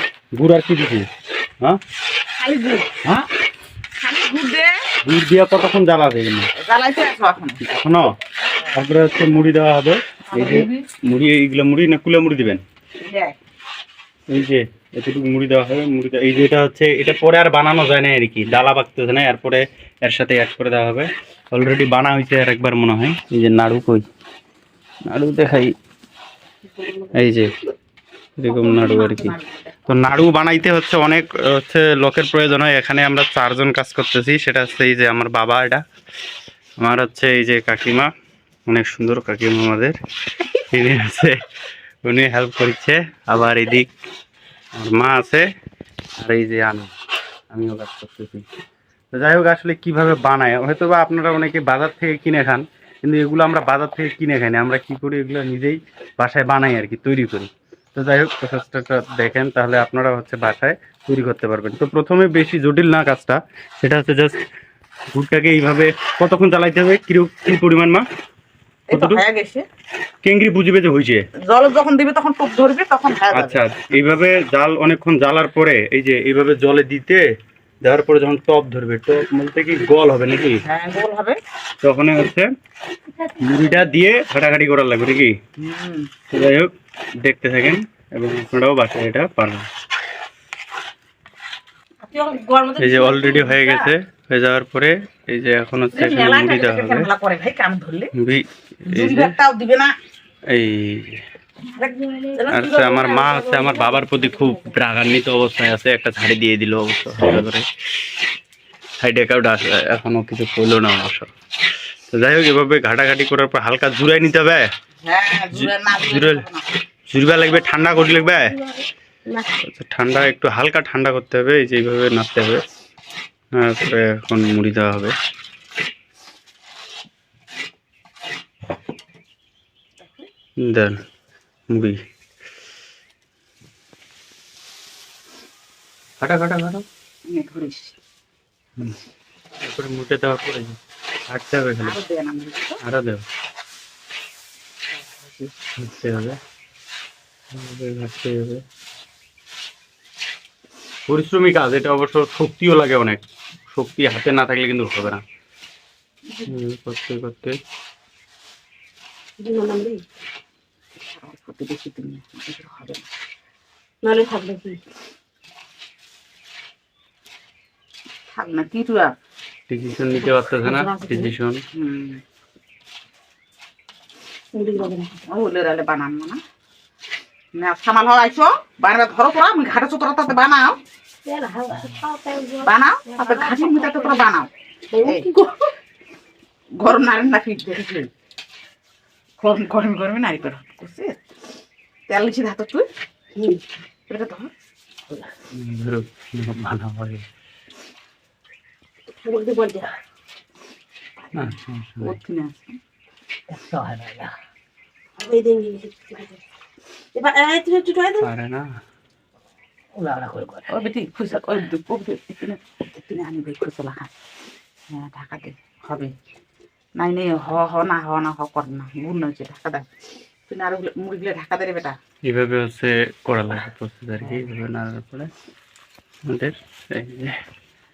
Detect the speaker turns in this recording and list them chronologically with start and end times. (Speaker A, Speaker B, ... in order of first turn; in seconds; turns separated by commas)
Speaker A: 0.4-1.1, Speaker B: 2.4-3.1, Speaker B: 4.0-4.7, Speaker A: 5.0-6.5, Speaker B: 6.6-7.6, Speaker A: 7.6-8.1, Speaker A: 8.6-12.6, Speaker B: 10.3-10.8, Speaker B: 13.0-13.4, Speaker A: 14.3-24.0, Speaker A: 25.1-25.7, Speaker C: 26.8-27.1, Speaker A: 27.1-27.5, Speaker A: 28.4-29.3, Speaker B: 28.4-29.7, Speaker A: 29.9-35.8, Speaker A: 36.8-38.1, Speaker A: 38.7-39.9, Speaker A: 40.7-41.4, Speaker A: 42.0-43.9, Speaker A: 44.8-45.5, Speaker A: 46.2-46.9, Speaker A: 47.5-48.4, Speaker A: 49.1-64.4, Speaker A: 65.1-68.0, Speaker B: 68.9-69.7, Speaker A: 68.9-69.2, Speaker A: 70.2-71.2, Speaker B: 71.5-73.6, Speaker A: 73.3-77.2, Speaker A: 77.8-80.6, Speaker B: 80.6-81.4, Speaker A: 81.8-82.5, Speaker A: 83.4-85.3, Speaker B: 85.6-86.1, Speaker A: 86.3-86.7, Speaker A: 87.2-89.7, Speaker B: 92.0-93.9, Speaker A: 92.8-97.1, Speaker B: 95.9-98.1, Speaker A: 98.2-99.3, Speaker B: 98.9-99.9, Speaker A: 100.5-101.2, Speaker B: 101.7-103.3, Speaker C: 102.4-104.7, Speaker A: 102.5-107.6, Speaker A: 109.0-111.3, Speaker A: 112.1-114.6, Speaker B: 115.0-116.7, Speaker A: 115.5-116.4, Speaker A: 117.1-118.5, Speaker C: 118.3-119.5, Speaker A: 119.7-122.6, Speaker A: 123.6-125.1, Speaker B: 130.0-130.3, Speaker A: 130.6-131.0, Speaker A: 131.7-132.0, Speaker A: 136.2-136.8, Speaker B: 137.3-138.0, Speaker A: 139.6-140.8, Speaker A: 141.3-141.9, Speaker B: 141.8-142.8, Speaker A: 142.8-143.2, Speaker B: 144.9-145.5, Speaker A: 145.8-146.4, Speaker A: 147.5-148.6, Speaker A: 151.1-155.2, Speaker A: 156.4-157.6, Speaker C: 159.4-160.0, Speaker B: 161.1-163.1, Speaker C: 164.0-164.8, Speaker B: 168.3-169.1, Speaker A: 169.7-171.6, Speaker C: 170.6-171.3, Speaker B: 171.7-172.2, Speaker C: 174.5-175.2, Speaker B: 174.8-176.4, Speaker B: 177.6-180.8, Speaker C: 181.2-184.2, Speaker B: 182.6-184.5, Speaker C: 184.9-185.4, Speaker B: 185.0-185.5, Speaker B: 186.8-188.1, Speaker B: 189.4-191.2, Speaker B: 192.1-192.8, Speaker B: 194.1-194.5, Speaker A: 195.5-197.2, Speaker C: 199.2-200.0, Speaker B: 201.2-202.8, Speaker A: 201.3-202.2, Speaker C: 203.5-204.3, Speaker C: 205.2-206.4, Speaker C: 207.1-208.3, Speaker A: 208.2-208.7, Speaker C: 209.9-210.7, Speaker B: 210.7-214.1, Speaker B: 214.9-216.1, Speaker B: 217.0-219.8, Speaker B: 220.5-222.0, Speaker A: 222.2-225.3, Speaker A: 226.3-227.3